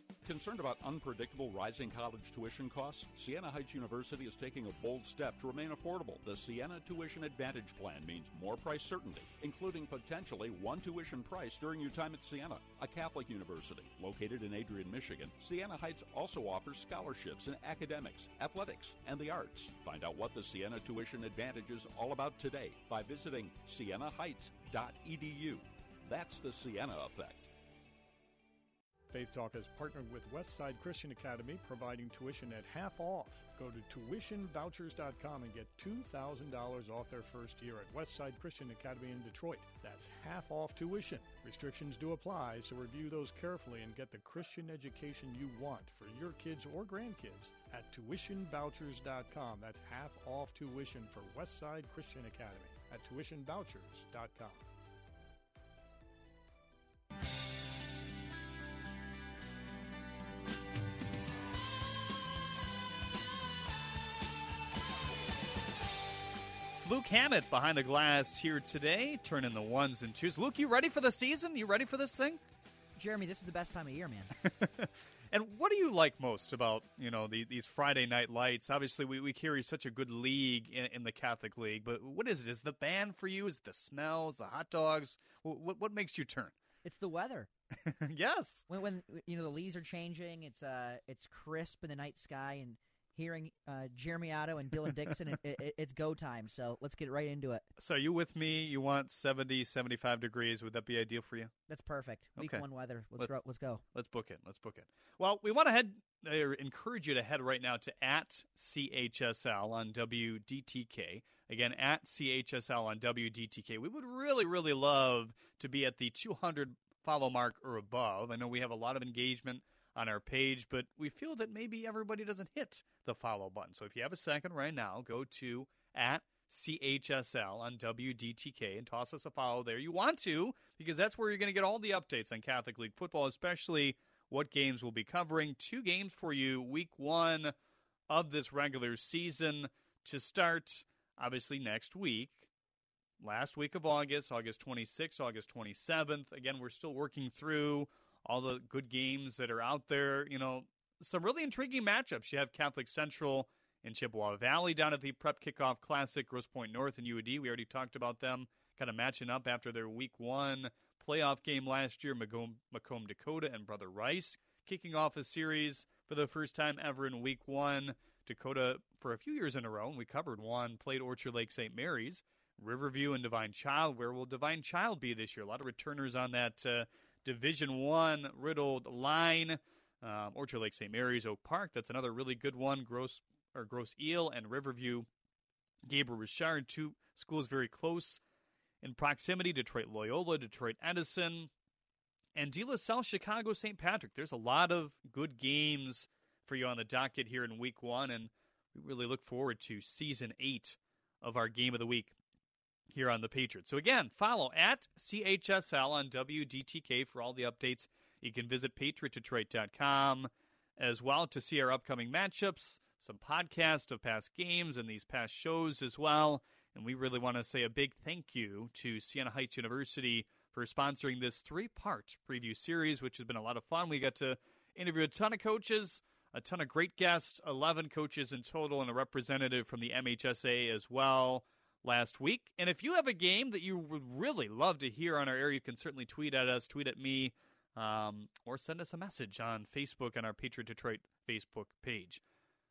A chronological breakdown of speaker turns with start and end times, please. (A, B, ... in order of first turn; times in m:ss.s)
0:00.2-0:27.5 A
0:29.1-0:54.6 B
1:06.7-1:12.4 C
1:13.0-1:14.3 D
1:14.4-1:26.5 C
1:26.8-1:27.5 D
1:27.8-1:28.7 C
1:28.7-1:37.7 D
1:37.8-1:41.5 C
1:41.7-1:43.8 D
1:42.4-1:42.6 C
1:43.9-2:17.5 C
2:18.1-2:22.5 C
2:23.2-3:05.1 C
3:05.8-3:08.2 C
3:08.8-3:11.5 C
3:12.4-3:22.1 C
3:22.9-4:02.2 C